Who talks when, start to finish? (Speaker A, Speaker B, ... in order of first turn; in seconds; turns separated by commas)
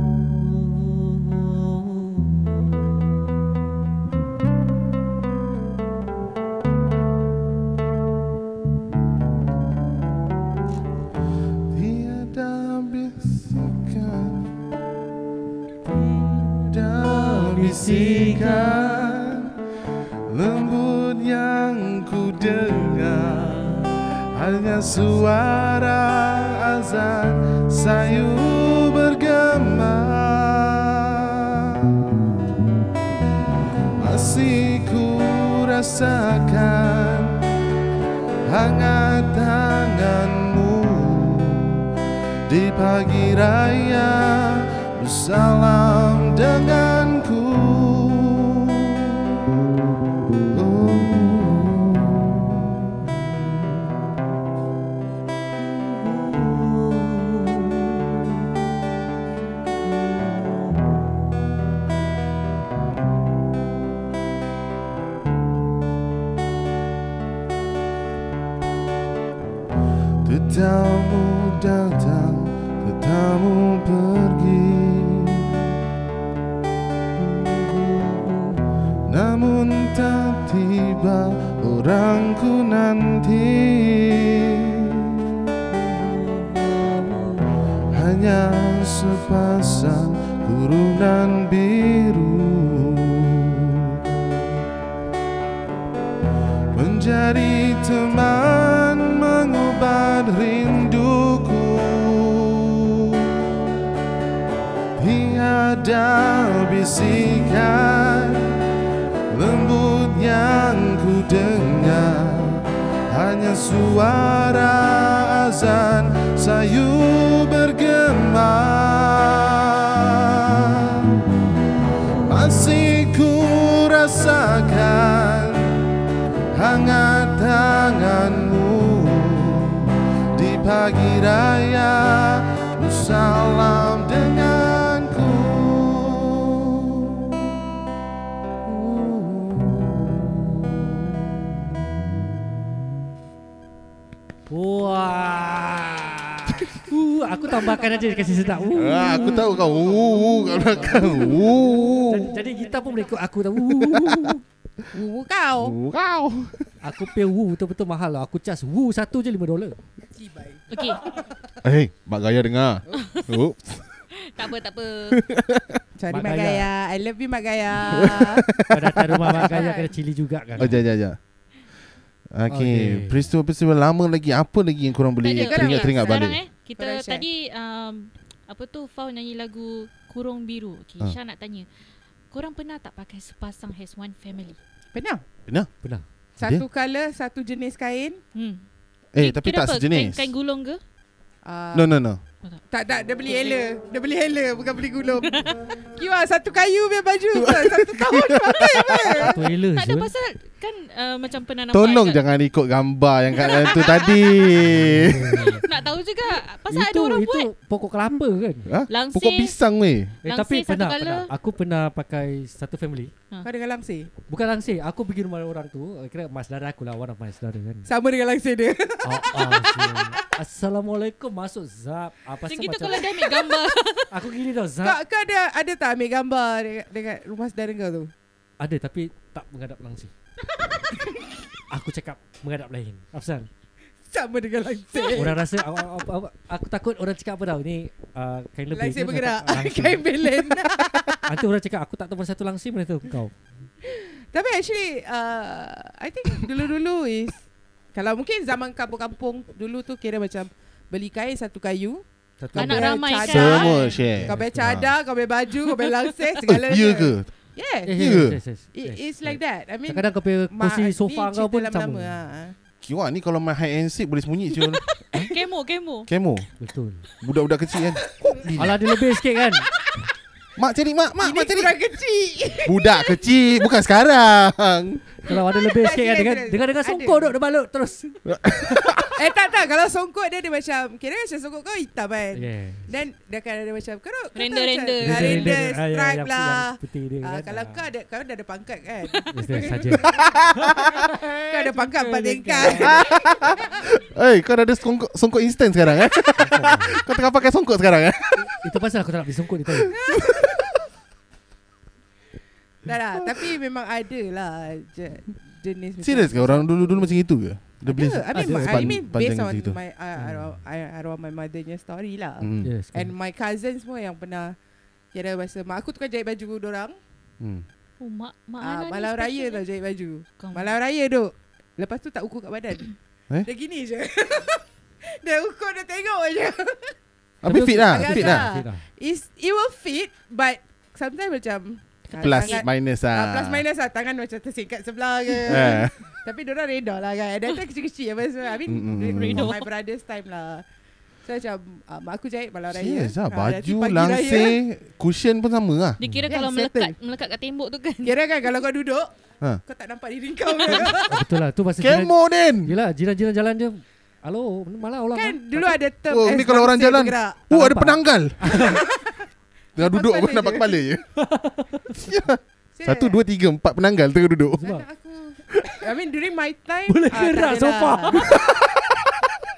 Speaker A: 11.7-14.6, Speaker B: 15.8-18.9, Speaker A: 16.7-19.5, Speaker A: 20.3-32.0, Speaker A: 34.0-37.4, Speaker A: 38.5-41.9, Speaker A: 42.5-49.5, Speaker A: 50.5-53.7, Speaker A: 70.2-75.6, Speaker A: 79.1-85.4, Speaker B: 87.0-87.3, Speaker A: 87.9-94.2, Speaker A: 96.7-103.6, Speaker A: 105.0-108.6, Speaker A: 109.3-121.2, Speaker A: 122.2-125.7, Speaker A: 126.5-137.6, Speaker A: 138.6-142.0, Speaker B: 144.5-149.5, Speaker A: 148.7-152.5, Speaker B: 150.7-151.4, Speaker B: 152.0-154.4, Speaker A: 153.7-154.4, Speaker C: 154.9-155.8, Speaker A: 155.6-156.7, Speaker B: 156.8-159.8, Speaker C: 160.1-161.3, Speaker D: 160.7-161.1, Speaker A: 161.6-164.0, Speaker D: 162.9-163.3, Speaker D: 164.2-165.2, Speaker A: 165.1-165.8, Speaker C: 166.0-168.4, Speaker B: 166.1-166.7, Speaker A: 167.9-169.5, Speaker B: 168.7-170.8, Speaker C: 169.3-169.9, Speaker A: 170.6-171.2, Speaker A: 172.3-176.4, Speaker B: 172.5-173.3, Speaker D: 175.2-181.7, Speaker C: 175.3-176.2, Speaker C: 176.8-177.2, Speaker D: 182.3-184.6, Speaker C: 184.9-185.2, Speaker C: 186.4-188.2, Speaker A: 186.4-186.6, Speaker D: 188.3-188.6, Speaker A: 189.1-190.3, Speaker D: 189.2-190.8, Speaker C: 191.4-191.9, Speaker A: 191.7-192.2, Speaker C: 192.7-199.4, Speaker A: 197.3-199.3, Speaker B: 199.2-200.1, Speaker D: 199.7-202.2, Speaker A: 201.7-205.6, Speaker D: 203.3-204.5, Speaker B: 204.6-205.6, Speaker D: 205.4-207.5, Speaker B: 206.7-208.7, Speaker A: 208.7-210.1, Speaker D: 208.9-209.6, Speaker D: 210.2-211.3, Speaker B: 210.2-213.1, Speaker C: 213.4-214.1, Speaker B: 214.3-217.9, Speaker C: 217.8-220.1, Speaker B: 219.0-223.2, Speaker D: 222.4-224.1, Speaker B: 224.1-225.0, Speaker C: 224.8-228.1, Speaker B: 228.6-230.1, Speaker B: 231.7-233.5, Speaker C: 234.1-235.4, Speaker B: 235.1-240.5, Speaker C: 238.7-241.3, Speaker B: 241.2-243.3, Speaker C: 243.8-252.0, Speaker B: 252.4-253.2, Speaker C: 252.5-258.2, Speaker D: 252.6-254.0, Speaker A: 253.2-254.9, Speaker B: 254.1-254.7, Speaker A: 256.4-257.3, Speaker B: 257.8-262.1, Speaker A: 257.9-258.4, Speaker C: 258.7-262.6, Speaker A: 262.8-264.8, Speaker D: 264.6-266.1, Speaker A: 266.1-266.5, Speaker B: 266.6-267.0, Speaker A: 267.2-268.8, Speaker C: 268.2-268.5, Speaker B: 268.5-269.7, Speaker A: 270.6-271.7, Speaker C: 271.2-273.2, Speaker A: 272.6-275.1, Speaker B: 275.2-278.9, Speaker C: 275.3-277.3, Speaker A: 278.3-279.1, Speaker C: 279.1-293.5, Speaker B: 282.3-282.9, Speaker D: 284.3-285.6, Speaker B: 285.0-287.8, Speaker B: 289.3-293.0, Speaker A: 290.0-290.7, Speaker A: 292.8-298.5, Speaker B: 296.4-297.0, Speaker B: 298.4-299.9, Speaker C: 299.9-300.5, Speaker A: 300.1-300.6, Speaker C: 302.8-307.1, Speaker A: 306.0-309.8, Speaker C: 307.9-314.5, Speaker B: 308.3-309.0, Speaker B: 310.1-310.5, Speaker A: 312.4-312.7, Speaker B: 312.6-313.1, Speaker C: 315.1-316.9, Speaker D: 318.0-319.6, Speaker C: 318.6-326.9, Speaker D: 320.4-320.7, Speaker A: 327.4-328.5, Speaker B: 327.4-328.9, Speaker C: 327.9-340.6, Speaker D: 332.1-332.6, Speaker A: 332.2-333.6, Speaker A: 335.4-335.9, Speaker A: 338.7-339.5, Speaker D: 339.1-339.7, Speaker C: 341.2-344.6, Speaker A: 342.7-346.0, Speaker D: 346.0-348.2, Speaker B: 346.0-346.3, Speaker C: 346.3-346.9, Speaker C: 348.0-349.1, Speaker C: 349.6-351.2, Speaker D: 350.6-350.9, Speaker B: 351.1-355.8, Speaker A: 351.8-352.7, Speaker C: 355.1-357.4, Speaker A: 356.1-358.8, Speaker B: 357.5-358.8, Speaker C: 358.6-361.0, Speaker A: 359.8-361.0, Speaker B: 361.1-361.9, Speaker A: 361.9-364.6, Speaker C: 362.8-363.2, Speaker B: 364.6-364.9, Speaker C: 364.6-368.5, Speaker B: 366.9-368.4, Speaker A: 368.3-369.3